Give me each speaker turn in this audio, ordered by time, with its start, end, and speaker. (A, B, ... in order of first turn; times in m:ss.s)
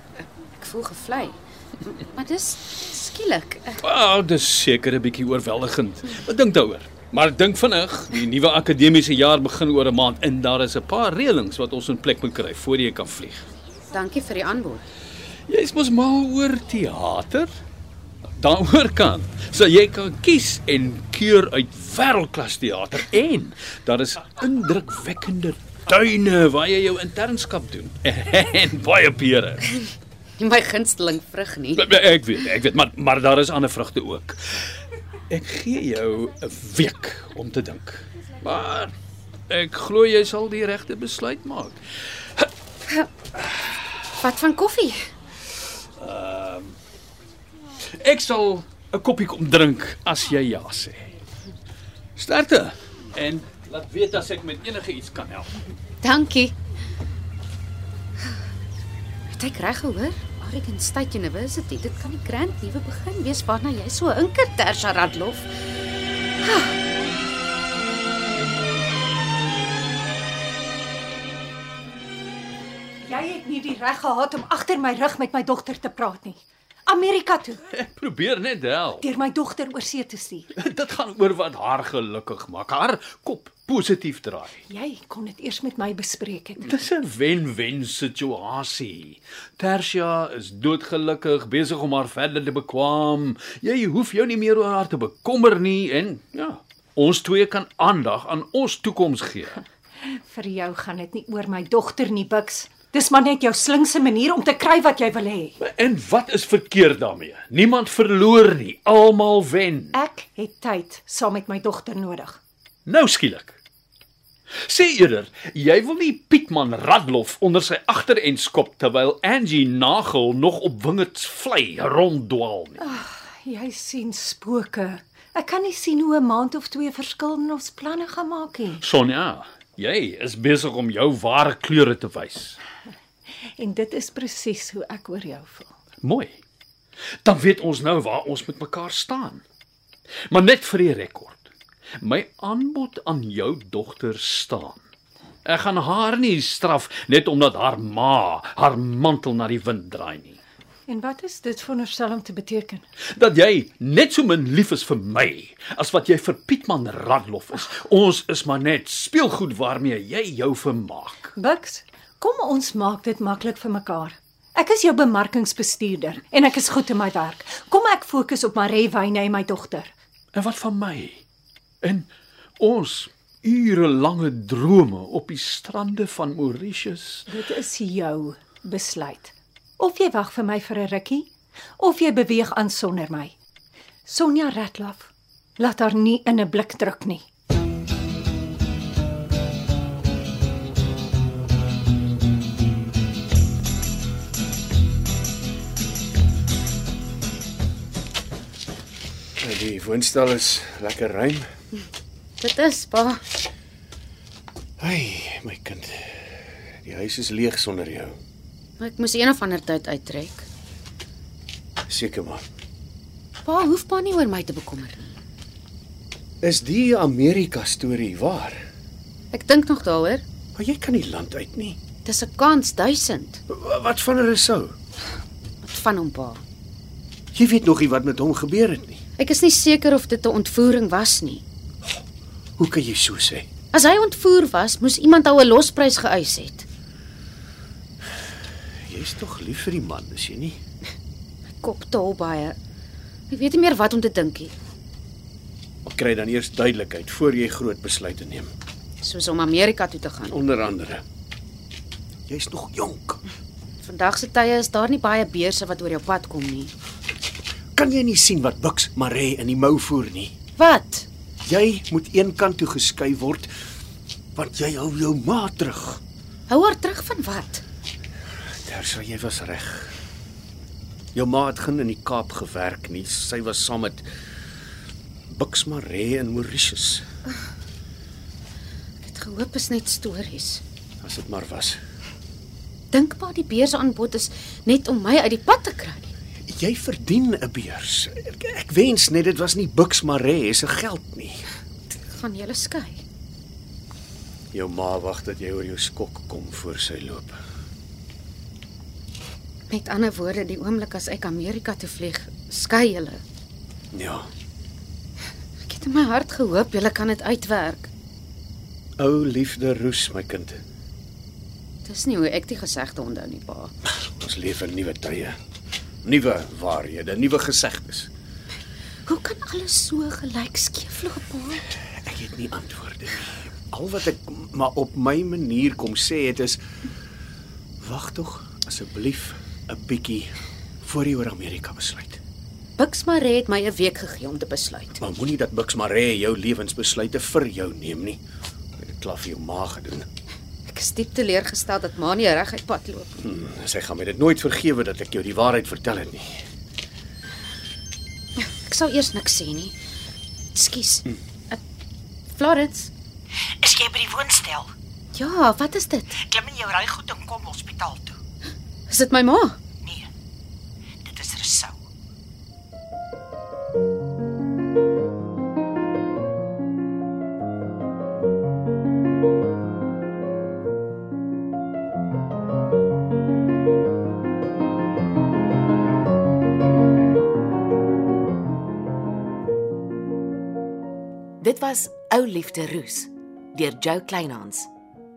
0:00.6-0:03.8 A
0:03.8-0:13.5 B
0:13.9-0:14.8 A
0:15.5-0:17.5 B
0:18.3-0:29.8 B
0:30.4-0:31.8 A
0:31.8-0:34.6 B
0:35.3-0:38.9 B
0:39.5-0:41.8 B
0:44.2-0:45.1 A
0:46.0-0:46.8 B
0:47.9-0:51.1 B
0:52.2-0:55.7 B
0:56.0-0:56.6 A
0:59.3-1:05.5 A
1:13.0-1:17.6 C
1:17.7-1:19.1 B
1:19.0-1:20.5 C
1:20.6-1:24.6 B
1:24.7-1:26.7 C
1:26.6-1:39.6 B
1:40.0-1:45.6 C
1:45.6-1:50.0 B
1:49.9-1:52.4 C
1:52.9-1:53.6 B
1:54.6-2:02.8 B
2:02.8-2:08.8 C
2:08.8-2:12.6 B
2:13.6-2:15.7 C
2:16.0-2:16.4 B
2:17.2-2:19.4 B
2:20.3-2:24.8 B
2:25.4-2:30.4 B
2:30.9-2:32.8 C
2:33.1-2:41.3 B
2:41.4-2:49.9 C
2:50.3-2:51.2 B
2:51.8-2:57.3 B
2:57.3-3:03.3 C
3:04.1-3:07.2 C
3:19.4-3:21.5 D
3:22.4-3:23.3 A
3:24.8-3:28.2 D
3:28.8-3:30.4 A
3:31.9-3:32.4 D
3:33.4-3:35.2 A
3:36.4-3:38.6 D
3:39.3-3:40.2 A
3:40.6-3:41.8 D
3:42.0-3:43.4 A
3:43.5-3:44.8 D
3:45.6-3:46.4 A
3:47.3-3:49.0 D
3:49.2-3:51.4 A
3:52.6-3:53.5 D
3:53.7-3:56.6 A
3:58.9-4:00.6 D
4:01.6-4:02.6 A
4:03.3-4:04.5 A
4:05.8-4:08.5 D
4:09.0-4:10.4 A
4:10.3-4:11.0 D
4:12.3-4:13.2 D
4:13.8-4:16.7 A
4:17.8-4:20.3 D
4:20.6-4:21.1 A
4:21.5-4:23.5 D
4:24.4-4:26.0 D
4:26.5-4:27.6 A
4:28.7-4:29.9 D
4:31.2-4:34.1 D
4:35.3-4:37.0 D
4:39.0-4:40.6 A
4:41.0-4:41.8 D
4:42.9-4:46.1 A
4:46.5-4:51.4 D
4:51.9-4:53.0 A
4:54.5-4:57.4 D
4:59.7-5:03.2 A
5:03.9-5:04.3 D
5:05.7-5:07.9 A
5:09.0-5:10.6 D
5:11.9-5:13.7 A
5:13.9-5:15.4 D
5:16.0-5:18.1 D
5:19.1-5:21.6 A
5:22.0-5:26.6 D
5:27.8-5:32.2 D
5:32.8-5:35.0 A
5:35.0-5:38.2 D
5:38.8-5:40.1 D
5:40.7-5:43.2 A
5:43.2-5:46.4 D
5:48.4-5:49.8 A
5:50.6-5:51.6 A
5:52.4-5:52.9 A
5:53.6-5:54.7 E
5:55.2-5:56.2 A
5:56.1-5:58.2 E
5:58.9-5:59.6 A
6:01.0-6:01.8 E
6:21.4-6:24.7 F